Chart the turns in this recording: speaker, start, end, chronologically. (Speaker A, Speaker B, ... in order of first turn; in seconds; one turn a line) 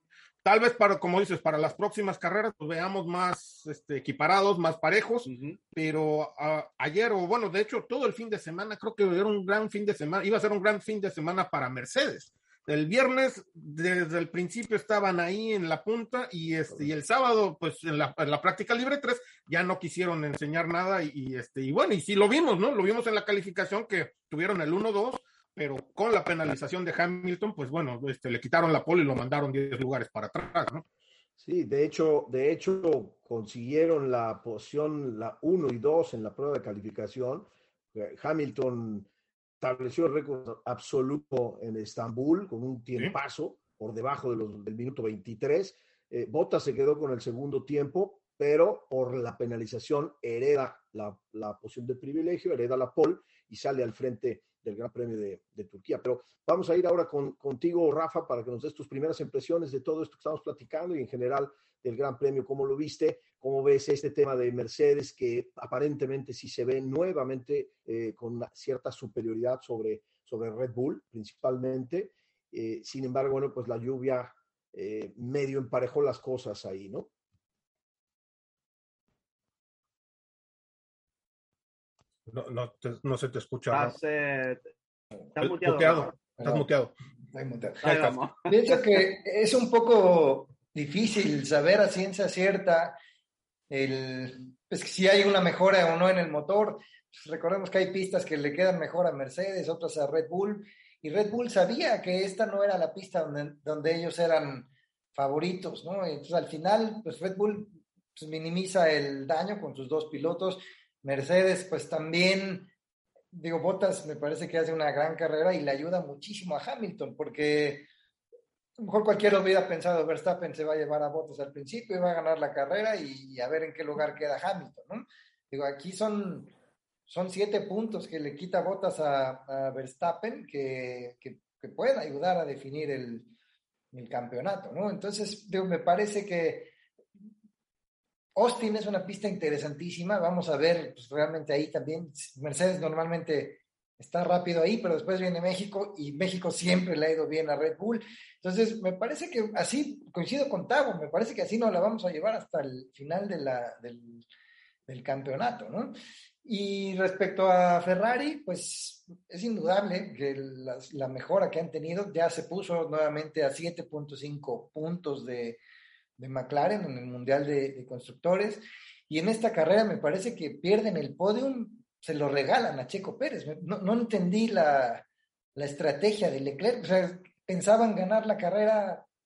Speaker A: 0.4-30.8
Speaker B: 5.2-5.6
Speaker C: 31.4-39.1
Speaker C: 39.6-77.1
Speaker A: 82.3-84.0
Speaker B: 83.7-84.6
Speaker B: 85.3-86.2
Speaker A: 85.4-86.9
Speaker D: 86.4-86.7
Speaker D: 87.3-87.8
Speaker B: 87.8-88.8
Speaker A: 87.8-88.2
Speaker D: 88.5-93.0
Speaker D: 93.7-112.7
Speaker D: 113.3-117.9
Speaker D: 118.8-126.5
Speaker D: 127.1-133.3
Speaker D: 133.9-136.7
Speaker D: 138.3-154.2
Speaker D: 154.9-165.6
Speaker D: 166.2-179.1